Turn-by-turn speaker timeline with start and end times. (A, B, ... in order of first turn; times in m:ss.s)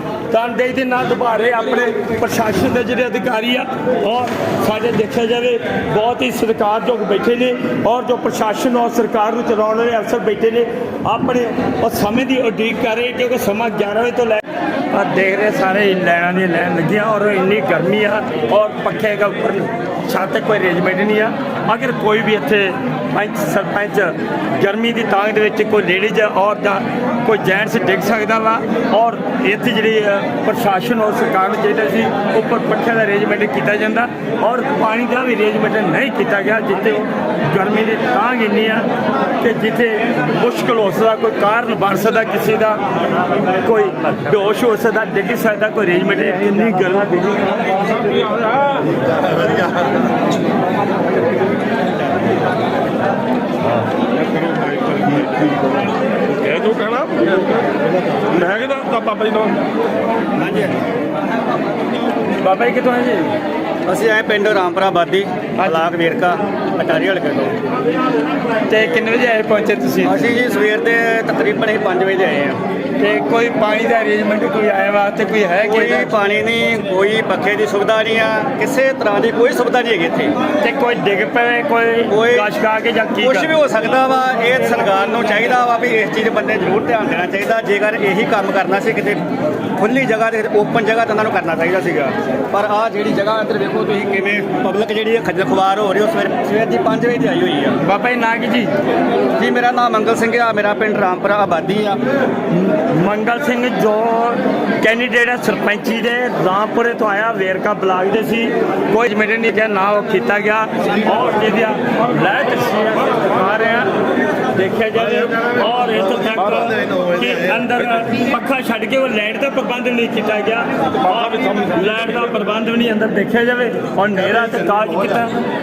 0:00.3-0:42.8 A
0:43.5-0:47.4 A
0:47.8-0:48.8 B
0:54.1-0:55.8 B
0:56.3-0:57.6 B
0:58.3-0:59.5 B
1:00.4-1:00.7 C
1:02.4-1:03.3 A
1:03.8-1:07.6 C
1:08.7-1:10.3 A
1:10.0-1:12.6 C
1:13.0-1:16.2 A
1:15.6-1:20.3 C
1:20.6-1:23.5 A
1:22.1-1:22.5 C
1:23.2-1:37.8 C
1:37.8-1:38.7 A
1:39.4-1:42.0 C
1:42.5-1:53.9 A
1:54.5-2:05.3 A
2:01.1-2:01.9 B